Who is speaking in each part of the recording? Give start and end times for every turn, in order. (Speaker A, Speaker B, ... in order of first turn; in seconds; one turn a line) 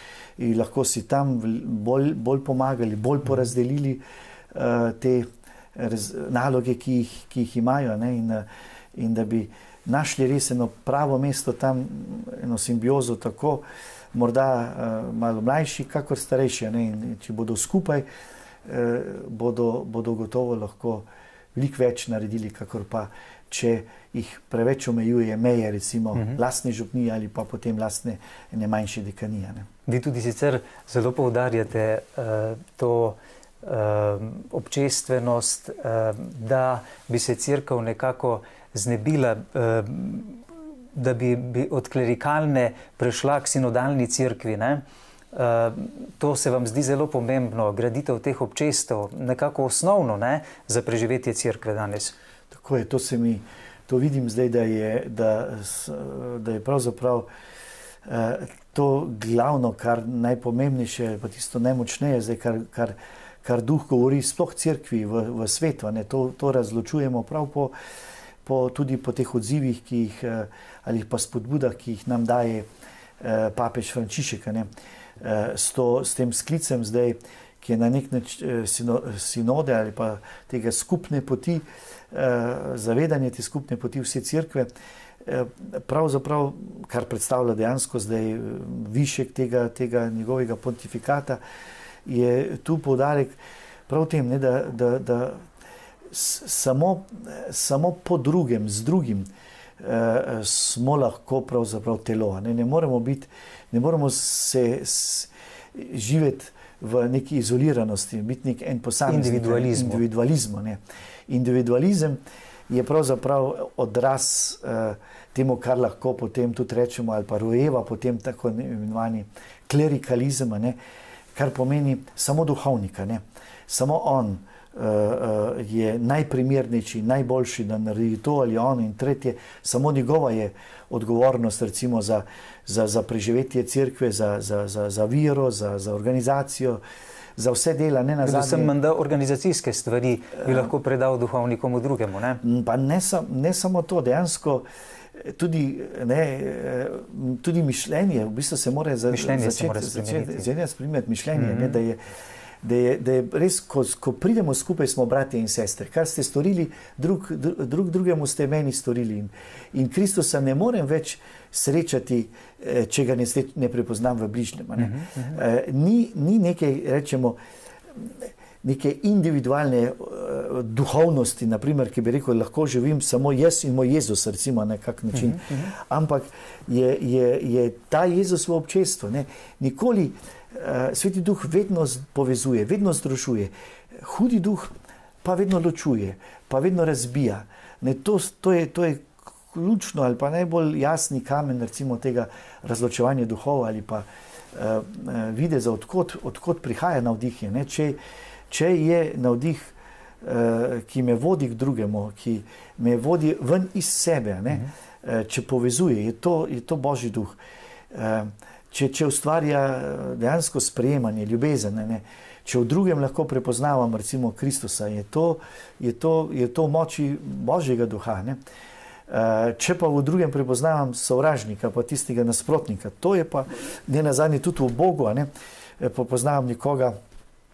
Speaker A: 0.4-18.1
Speaker A: 18.6-29.7
Speaker B: 29.9-40.4
Speaker B: 40.9-52.1
Speaker A: 52.5-57.3
Speaker A: 58.0-67.7
Speaker A: 68.4-72.7
Speaker A: 73.2-74.7
Speaker A: 75.2-84.7
Speaker A: 85.2-91.4
Speaker A: 92.0-93.3
Speaker A: 93.9-95.5
Speaker A: 96.1-99.3
Speaker A: 99.8-120.8
Speaker B: 109.1-110.0
Speaker A: 121.3-136.8
Speaker A: 137.4-138.7
Speaker B: 138.2-142.4
Speaker A: 142.4-167.4
Speaker B: 149.1-150.5
Speaker B: 151.3-151.8
Speaker B: 164.8-165.4
Speaker A: 167.9-207.4
Speaker B: 175.1-175.7
Speaker A: 207.9-218.4
Speaker A: 219.1-225.3
Speaker A: 225.8-227.0